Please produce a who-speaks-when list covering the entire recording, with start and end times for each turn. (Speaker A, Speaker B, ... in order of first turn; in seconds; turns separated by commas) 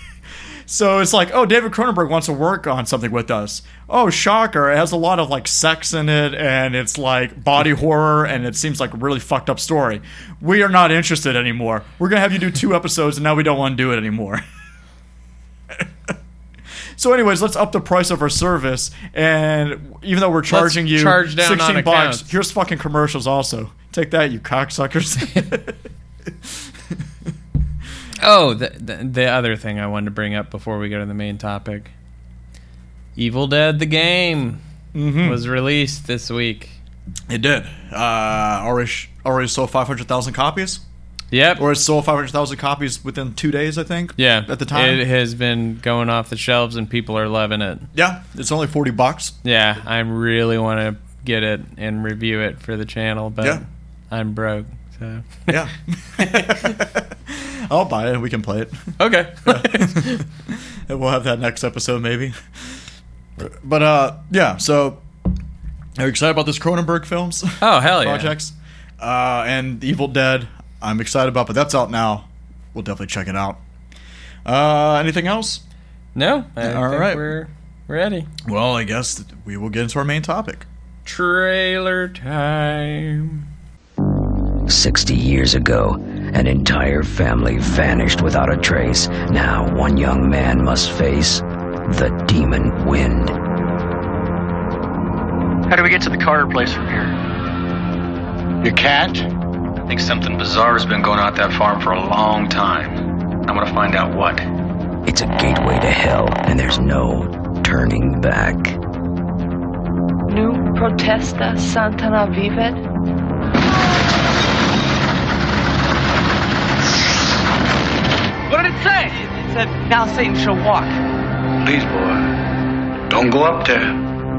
Speaker A: 0.7-14.4, Speaker A: 15.7-16.1, Speaker A: 17.0-27.0, Speaker B: 20.5-22.3, Speaker B: 28.2-31.9, Speaker B: 33.1-34.6, Speaker A: 34.9-35.4, Speaker B: 35.2-36.8, Speaker A: 37.3-40.8, Speaker B: 41.3-41.6, Speaker A: 41.6-45.0, Speaker B: 44.2-47.9, Speaker A: 47.9-49.3, Speaker B: 49.4-55.5, Speaker A: 55.5-58.9, Speaker B: 59.0-60.2, Speaker A: 59.5-62.4, Speaker A: 63.4-65.0, Speaker A: 66.0-73.6, Speaker B: 67.6-68.3, Speaker A: 74.4-75.6, Speaker B: 76.1-78.3, Speaker A: 76.6-77.2, Speaker A: 78.4-80.7, Speaker B: 81.0-83.4, Speaker C: 84.7-93.3, Speaker D: 95.7-97.1, Speaker D: 98.6-99.3, Speaker D: 99.9-104.4, Speaker C: 105.0-108.8, Speaker E: 110.3-112.8, Speaker F: 118.5-121.0, Speaker D: 121.6-122.3, Speaker D: 123.1-124.0